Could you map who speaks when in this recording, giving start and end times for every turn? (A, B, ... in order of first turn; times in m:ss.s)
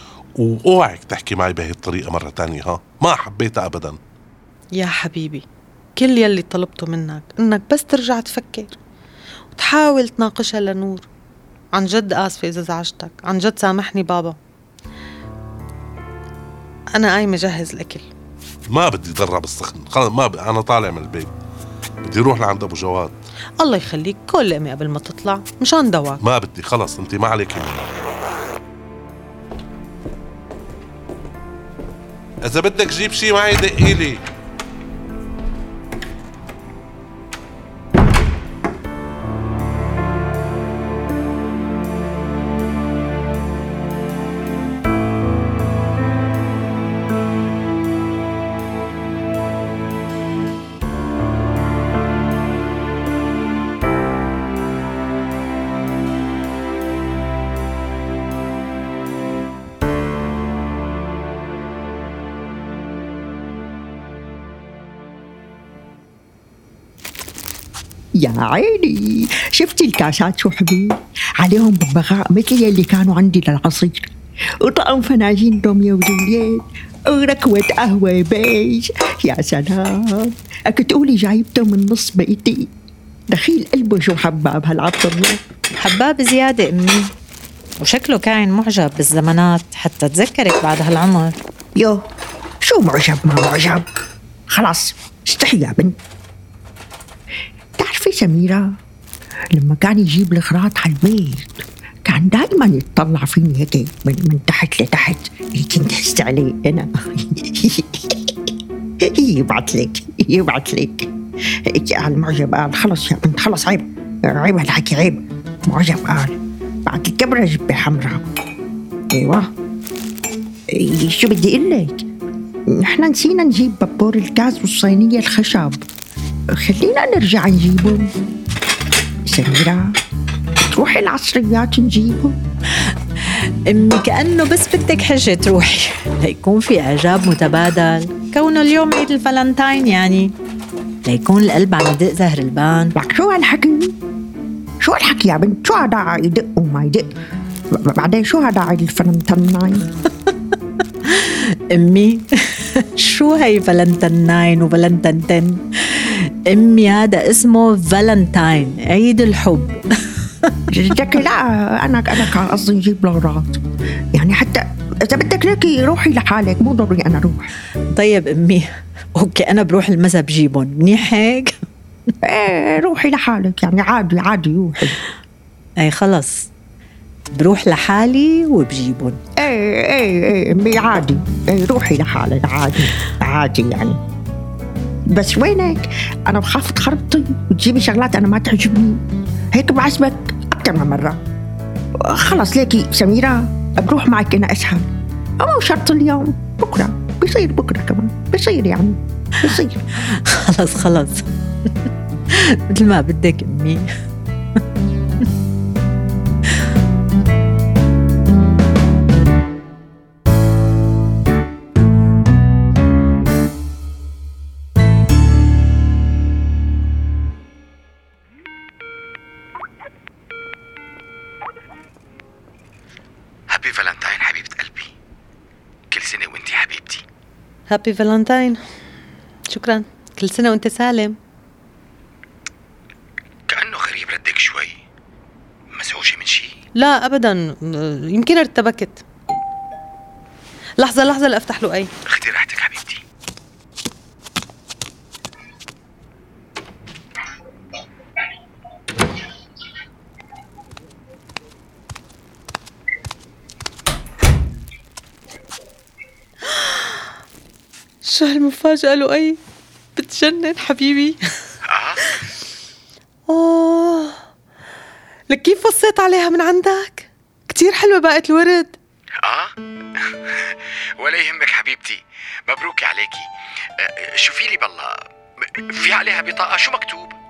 0:00.4-0:04.0 A
0:04.8-0:05.4 B
0:06.0-0:08.8 B
0:09.6-0:11.1 B
0:11.8-0:14.4 B
0:17.0-0:18.1 B
0:18.7-0:21.3 A
0:22.0-0:23.2 A
0:23.6-0:26.2 B
0:26.2-0:27.9 A
0:32.4-0:34.2 A
1:08.2-1:22.7 C
1:23.3-1:25.4 C
1:25.8-1:27.1 D
1:27.8-1:31.4 D
1:31.8-1:32.0 C
1:32.6-1:33.8 C
1:34.5-1:36.0 C
1:37.8-1:38.8 C
1:39.5-1:58.2 C
1:59.1-1:59.5 C
2:00.7-2:02.0 C
2:02.7-2:05.8 C
2:06.5-2:08.1 C
2:09.3-2:09.9 C
2:10.7-2:12.4 C
2:12.8-2:20.3 D
2:21.0-2:22.9 D
2:23.0-2:24.0 C
2:24.8-2:27.1 C
2:27.7-2:29.8 C
2:30.3-2:39.8 D
2:40.7-2:43.6 C
2:44.1-2:47.5 C
2:47.9-2:51.6 D
2:52.2-2:55.0 C
2:55.8-2:56.5 D
2:57.4-2:59.2 D
2:59.4-3:04.0 C
3:05.1-3:09.0 C
3:09.5-3:11.2 C
3:12.0-3:14.9 C
3:15.4-3:19.8 C
3:20.1-3:21.2 D
3:22.3-3:23.9 D
3:43.5-3:44.9 E
3:45.9-3:47.0 E
3:47.7-3:48.6 B
3:49.5-3:51.2 B
3:53.5-3:54.8 E
3:55.7-3:56.5 E
3:56.8-3:59.0 B
4:00.8-4:01.9 B
4:02.1-4:03.0 E
4:16.5-4:17.0 B
4:18.0-4:19.4 B
4:20.0-4:21.2 B
4:21.7-4:22.1 E
4:23.3-4:24.2 B
4:25.3-4:28.8 B
4:29.2-4:37.1 E